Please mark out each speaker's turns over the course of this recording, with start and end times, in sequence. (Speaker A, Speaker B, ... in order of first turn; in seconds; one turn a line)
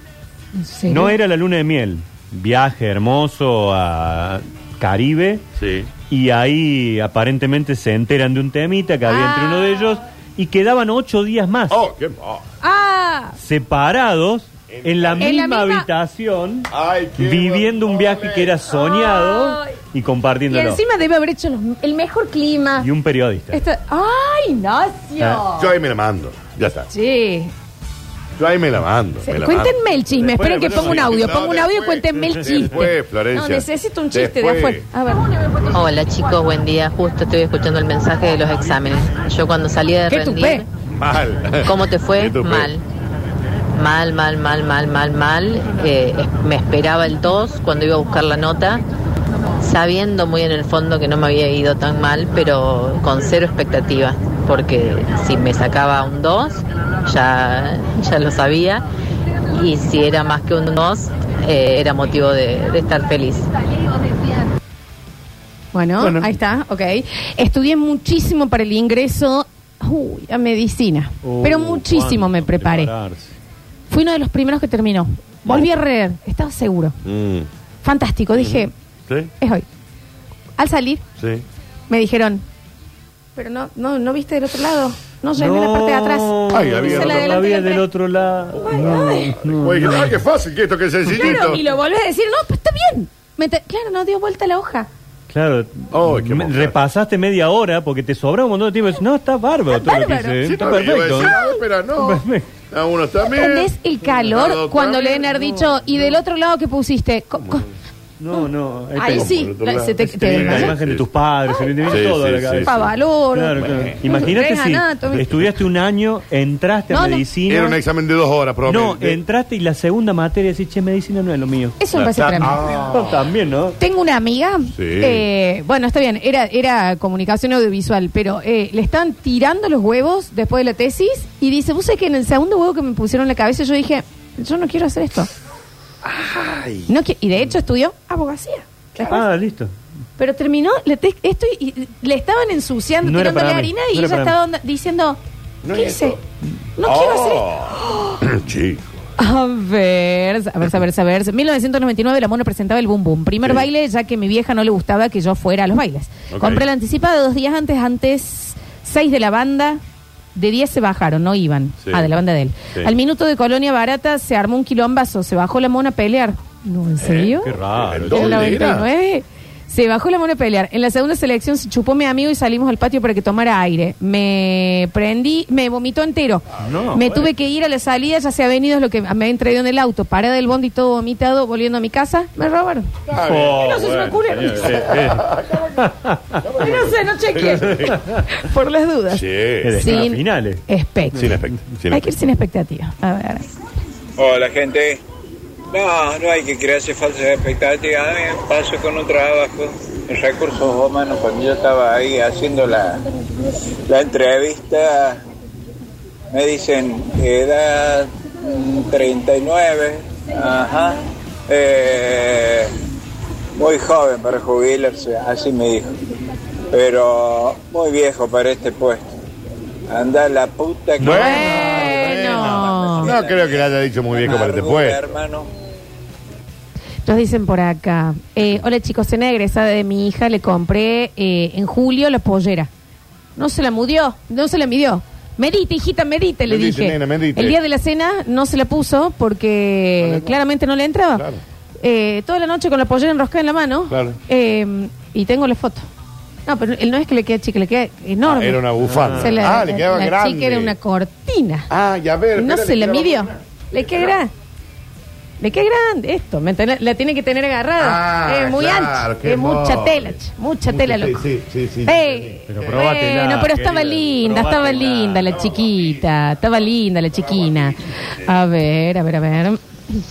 Speaker A: 0.5-1.1
Speaker B: 0.9-5.4
Speaker C: 5.6-5.9
Speaker B: 6.1-11.8
Speaker A: 9.1-10.0
Speaker C: 11.7-12.4
Speaker A: 12.6-13.3
Speaker B: 13.4-20.8
Speaker C: 14.7-15.4
Speaker A: 15.2-15.8
Speaker C: 16.7-18.6
Speaker A: 18.7-19.7
Speaker A: 20.5-22.9
Speaker B: 22.8-23.6
Speaker A: 23.5-25.7
Speaker C: 25.5-26.9
Speaker A: 26.9-27.5
Speaker C: 28.4-29.7
Speaker A: 29.2-35.3
Speaker C: 30.3-34.8
Speaker B: 30.3-31.2
Speaker D: 35.7-40.6
Speaker A: 40.1-40.6
Speaker C: 41.0-42.7
Speaker D: 41.6-42.8
Speaker D: 43.7-48.8
Speaker D: 49.6-58.8
Speaker D: 59.5-63.5
Speaker A: 65.7-72.9
Speaker B: 66.0-66.3
Speaker B: 71.2-73.4
Speaker A: 73.9-76.9
Speaker C: 77.0-77.5
Speaker A: 77.8-78.7
Speaker C: 78.3-79.3
Speaker A: 79.4-79.7
Speaker A: 80.6-81.0
Speaker C: 81.2-81.4
Speaker A: 81.9-82.4
Speaker A: 83.3-87.8
Speaker B: 85.4-90.2
Speaker C: 86.5-87.3
Speaker A: 88.6-89.3
Speaker C: 89.5-91.6
Speaker A: 91.1-94.9
Speaker B: 95.3-101.3
Speaker C: 95.9-96.8
Speaker A: 99.7-100.4
Speaker C: 100.4-105.9
Speaker A: 101.1-101.6
Speaker B: 101.9-102.5
Speaker A: 103.2-107.7
Speaker C: 107.3-107.7
Speaker B: 108.2-109.4
Speaker A: 108.9-110.7
Speaker C: 109.1-111.0
Speaker B: 110.0-117.8
Speaker C: 111.8-112.9
Speaker A: 112.6-115.3
Speaker C: 113.6-114.3
Speaker A: 116.9-117.2
Speaker C: 117.5-119.2
Speaker B: 118.7-121.8
Speaker A: 121.8-122.6
Speaker C: 121.9-123.2
Speaker B: 122.4-123.8
Speaker A: 123.8-135.3
Speaker C: 124.7-125.2
Speaker C: 136.0-136.9
Speaker A: 136.9-139.2
Speaker C: 138.9-139.2
Speaker B: 139.0-139.7
Speaker A: 140.2-145.2
Speaker B: 143.0-144.3
Speaker C: 145.6-146.2
Speaker A: 145.7-146.2
Speaker A: 146.8-148.2
Speaker C: 146.8-149.0
Speaker A: 149.2-159.8
Speaker C: 156.3-156.6
Speaker A: 160.3-167.5
Speaker C: 161.8-162.1
Speaker C: 167.0-168.9
Speaker B: 167.4-168.6
Speaker A: 168.1-182.9
Speaker B: 176.6-177.3
Speaker C: 183.1-185.8
Speaker B: 183.2-186.4
Speaker A: 183.5-184.8
Speaker C: 186.4-188.0
Speaker A: 186.6-189.2
Speaker B: 187.8-188.2
Speaker C: 189.1-190.1
Speaker B: 189.6-190.6
Speaker A: 189.8-191.3
Speaker C: 191.1-192.1
Speaker B: 191.2-191.4
Speaker A: 191.9-193.4
Speaker E: 194.2-195.0
Speaker E: 195.7-203.0
Speaker E: 203.9-205.2
Speaker E: 206.3-212.7
Speaker E: 213.6-215.9
Speaker E: 216.7-219.1
Speaker E: 219.9-221.7
Speaker C: 221.0-225.2
Speaker A: 221.0-223.1
Speaker E: 222.7-223.6
Speaker E: 224.2-225.5
Speaker A: 227.0-232.7
Speaker A: 233.3-241.2
Speaker C: 236.5-237.6
Speaker C: 240.0-240.4
Speaker C: 241.1-241.4
Speaker A: 241.8-245.9
Speaker C: 243.9-244.2
Speaker A: 246.5-251.7
Speaker C: 248.2-250.7
Speaker B: 248.8-249.3
Speaker C: 251.7-254.1
Speaker A: 252.3-254.3
Speaker A: 255.4-261.2
Speaker C: 257.8-262.4
Speaker A: 261.8-269.6
Speaker B: 262.5-265.4